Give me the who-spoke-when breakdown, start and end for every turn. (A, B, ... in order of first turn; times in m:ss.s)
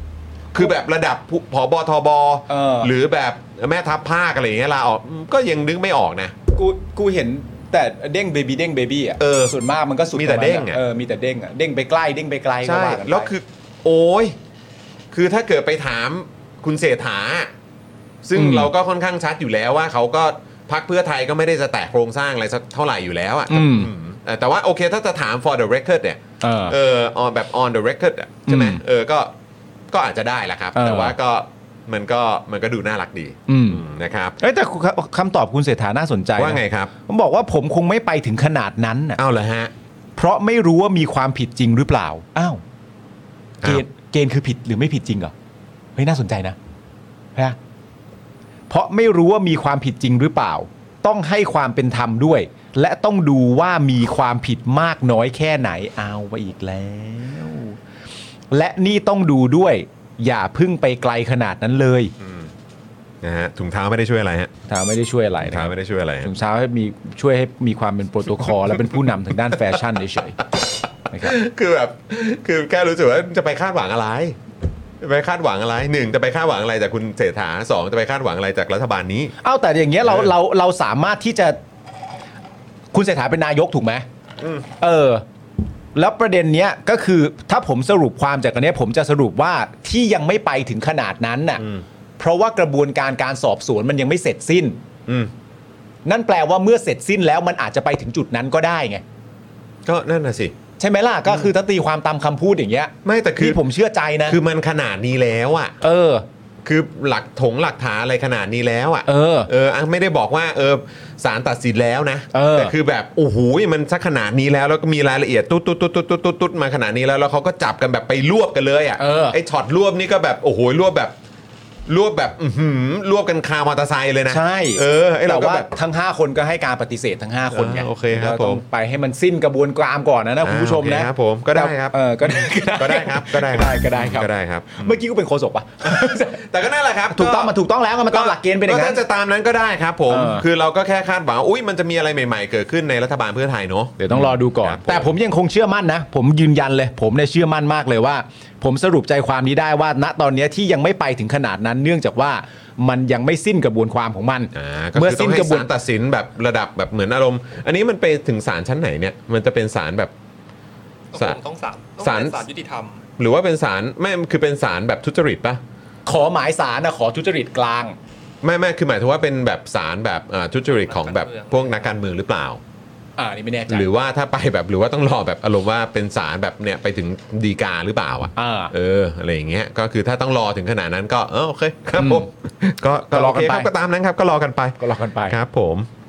0:00.5-0:06.3 A
0:02.5-0:02.9 B
0:06.5-0:13.3 B
0:09.2-0:09.6 A
0:10.1-0:10.8 A
0:12.6-0:14.4 A
0:15.1-0:17.5 A
0:18.2-0:29.3 A
0:18.4-0:18.7 B
0:23.5-0:23.9 B
0:26.4-0:26.8 B
0:28.5-0:28.8 B
0:29.9-0:34.4 A
0:30.8-0:31.1 B
0:33.5-0:33.8 B
0:34.4-0:39.2 B
0:36.4-0:36.9 A
0:39.2-0:39.7 A
0:40.2-0:42.6 B
0:43.6-0:45.3 B
0:46.0-0:46.6 B
0:48.7-0:57.8 B
0:58.5-1:02.1 B
1:02.2-1:02.5 A
1:03.2-1:04.5 A
1:04.7-1:10.4 B
1:05.4-1:06.3 A
1:11.1-1:11.4 B
1:11.2-1:14.4 A
1:15.0-1:19.3 A
1:19.4-1:21.6 B
1:20.0-1:20.3 A
1:22.9-1:24.1 B
1:24.4-1:24.7 A
1:24.8-1:25.2 B
1:26.0-1:31.6 B
1:31.6-1:31.8 A
1:32.2-1:34.8 B
1:36.0-1:39.0 B
1:39.8-1:40.6 A
1:40.8-1:44.4 B
1:43.0-1:43.6 A
1:44.3-1:45.8 A
1:45.8-1:46.2 B
1:46.6-2:01.2 A
1:49.1-1:49.5 B
1:52.3-1:52.7 B
1:59.0-1:59.4 B
2:01.9-2:05.7 A
2:04.3-2:16.4 B
2:07.5-2:08.6 A
2:10.4-2:15.0 A
2:15.9-2:17.6 A
2:17.1-2:19.0 B
2:18.1-2:25.2 A
2:20.1-2:20.4 B
2:24.0-2:35.7 B
2:34.5-2:40.1 A
2:41.1-2:43.0 C
2:41.2-2:41.4 A
2:42.0-2:42.4 A
2:43.2-2:45.6 A
2:46.1-2:48.0 B
2:48.4-2:52.6 A
2:50.7-2:51.9 C
2:53.2-2:53.9 B
2:53.7-3:05.9 A
2:58.4-2:58.7 B
3:02.0-3:02.3 B
3:03.1-3:03.7 B
3:04.8-3:05.4 B